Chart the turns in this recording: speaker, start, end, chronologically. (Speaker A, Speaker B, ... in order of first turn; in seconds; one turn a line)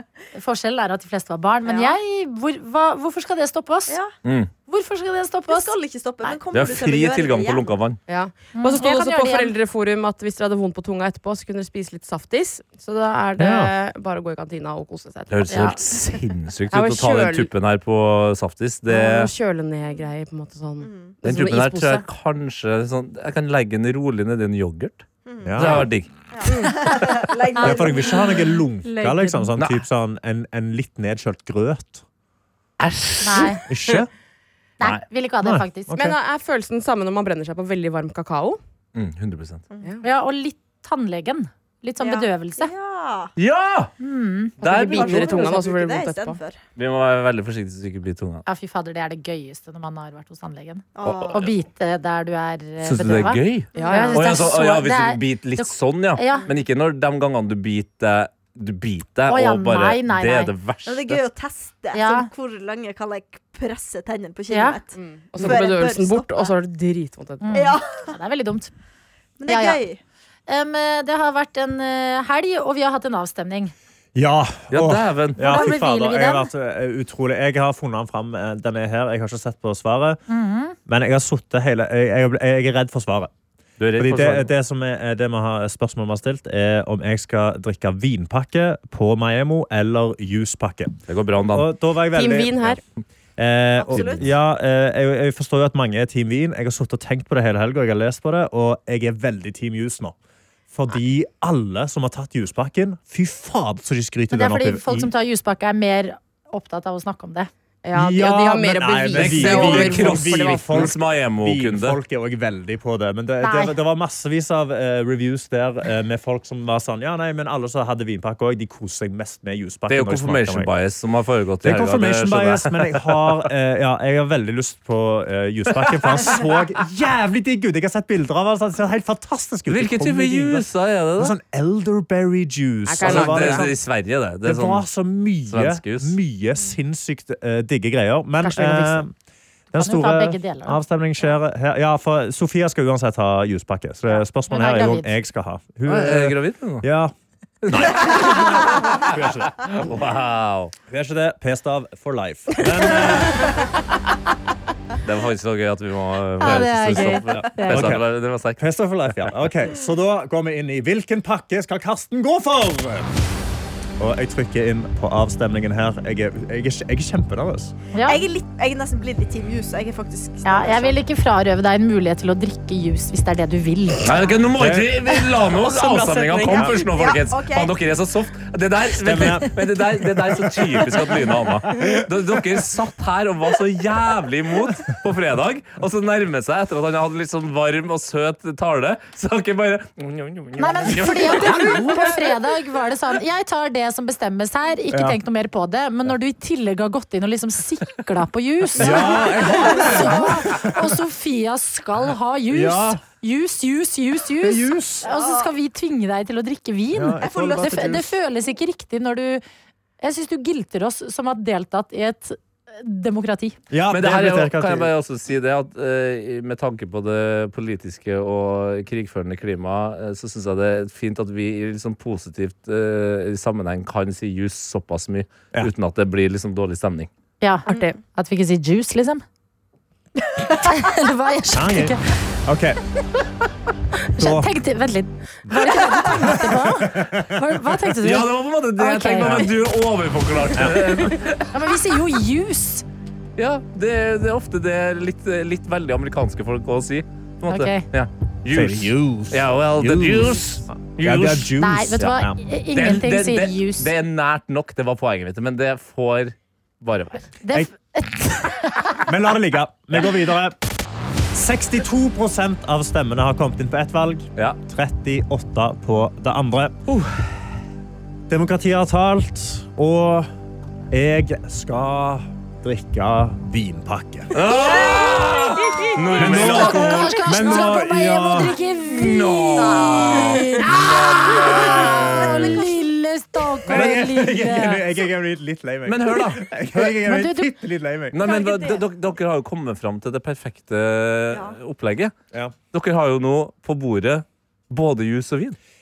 Speaker A: 0.3-4.0
Speaker B: 1.7-1.9
Speaker C: 4.2-4.5
Speaker A: 4.7-6.4
Speaker D: 5.5-7.7
Speaker C: 6.5-8.0
Speaker B: 8.1-15.9
Speaker A: 8.6-9.5
Speaker E: 13.4-13.7
Speaker C: 15.3-19.3
Speaker A: 15.5-15.8
Speaker B: 16.7-17.5
Speaker B: 18.9-22.0
Speaker D: 20.8-21.1
Speaker C: 21.2-26.1
Speaker D: 25.3-28.2
Speaker E: 25.4-25.9
Speaker B: 26.5-26.8
Speaker A: 27.6-29.5
Speaker E: 27.6-32.0
Speaker C: 29.6-29.8
Speaker C: 32.8-33.7
Speaker A: 33.2-33.6
Speaker E: 33.7-34.1
Speaker A: 34.8-35.9
Speaker E: 35.4-36.2
Speaker B: 35.9-38.6
Speaker C: 39.0-39.6
Speaker D: 39.7-40.0
Speaker A: 40.0-42.7
Speaker D: 42.0-43.3
Speaker C: 43.4-43.9
Speaker A: 44.0-45.1
Speaker C: 44.6-45.5
Speaker B: 44.8-46.4
Speaker D: 44.9-46.6
Speaker C: 46.8-48.4
Speaker A: 48.5-56.5
Speaker D: 51.0-51.4
Speaker C: 51.0-51.5
Speaker C: 52.8-61.2
Speaker B: 53.7-54.4
Speaker D: 53.8-54.1
Speaker A: 59.3-60.5
Speaker D: 60.9-66.5
Speaker A: 61.9-62.3
Speaker A: 64.5-64.8
Speaker B: 65.0-67.6
Speaker A: 67.4-68.7
Speaker D: 67.5-68.1
Speaker D: 69.4-70.0
Speaker A: 69.5-69.8
Speaker A: 70.5-73.7
Speaker E: 74.2-80.2
Speaker C: 74.7-75.4
Speaker A: 75.4-76.5
Speaker A: 80.3-80.8
Speaker E: 80.9-83.3
Speaker C: 83.8-84.5
Speaker E: 84.0-91.0
Speaker C: 91.1-91.7
Speaker E: 91.5-92.8
Speaker B: 92.1-92.8
Speaker E: 93.4-100.2
Speaker D: 93.8-94.3
Speaker C: 93.9-94.3
Speaker E: 100.7-105.1
Speaker A: 104.3-107.5
Speaker B: 107.8-110.8
Speaker E: 107.9-120.7
Speaker C: 109.1-112.0
Speaker A: 113.4-113.7
Speaker C: 119.9-123.4
Speaker E: 121.6-130.7
Speaker C: 126.0-126.4
Speaker C: 129.7-131.3
Speaker E: 131.2-133.8
Speaker B: 132.9-133.7
Speaker C: 133.0-134.8
Speaker E: 134.4-139.1
Speaker C: 135.5-136.2
Speaker B: 138.4-139.1
Speaker E: 139.7-147.1
Speaker A: 139.8-140.8
Speaker A: 144.1-145.1
Speaker C: 145.9-146.9
Speaker C: 147.6-150.7
Speaker E: 147.7-149.8
Speaker E: 150.9-153.5
Speaker C: 155.0-159.4
Speaker A: 156.4-157.9
Speaker E: 156.4-163.1
Speaker E: 164.0-167.8
Speaker A: 167.9-168.2
Speaker D: 168.1-171.0
Speaker A: 170.4-174.1
Speaker C: 174.0-191.9
Speaker E: 174.6-175.0
Speaker B: 175.6-176.8
Speaker E: 176.5-176.8
Speaker D: 176.8-177.8
Speaker E: 179.0-181.2
Speaker E: 181.8-182.2
Speaker A: 190.6-209.4
Speaker E: 191.3-192.1
Speaker E: 194.9-195.2
Speaker E: 198.8-200.9
Speaker E: 202.5-203.0
Speaker E: 204.3-205.1
Speaker D: 205.0-205.5
Speaker E: 206.9-208.1
Speaker D: 207.2-208.0
Speaker A: 210.0-213.6
Speaker E: 213.7-214.9
Speaker C: 213.9-227.1
Speaker A: 227.4-229.2
Speaker B: 227.7-228.0
Speaker A: 230.5-232.0
Speaker E: 231.5-232.8
Speaker E: 234.2-234.5
Speaker A: 234.2-239.5
Speaker E: 235.5-237.7
Speaker C: 238.0-241.5
Speaker E: 240.6-241.1
Speaker A: 241.5-242.8
Speaker C: 243.4-252.1
Speaker A: 247.5-247.8
Speaker E: 248.5-252.4
Speaker A: 251.6-253.9
Speaker C: 252.8-257.3
Speaker A: 257.4-259.0
Speaker E: 259.1-260.6
Speaker E: 261.3-266.8
Speaker C: 266.9-267.4
Speaker E: 268.3-270.3
Speaker E: 270.9-274.4
Speaker C: 274.3-277.7
Speaker D: 274.5-275.4
Speaker E: 276.2-278.6
Speaker A: 276.3-284.8
Speaker C: 278.9-282.5
Speaker D: 279.6-280.3
Speaker D: 282.1-282.6
Speaker E: 283.7-288.2
Speaker C: 285.9-286.4
Speaker A: 286.7-287.5
Speaker C: 288.1-292.1
Speaker D: 288.2-288.8
Speaker D: 291.3-291.6
Speaker C: 292.7-295.6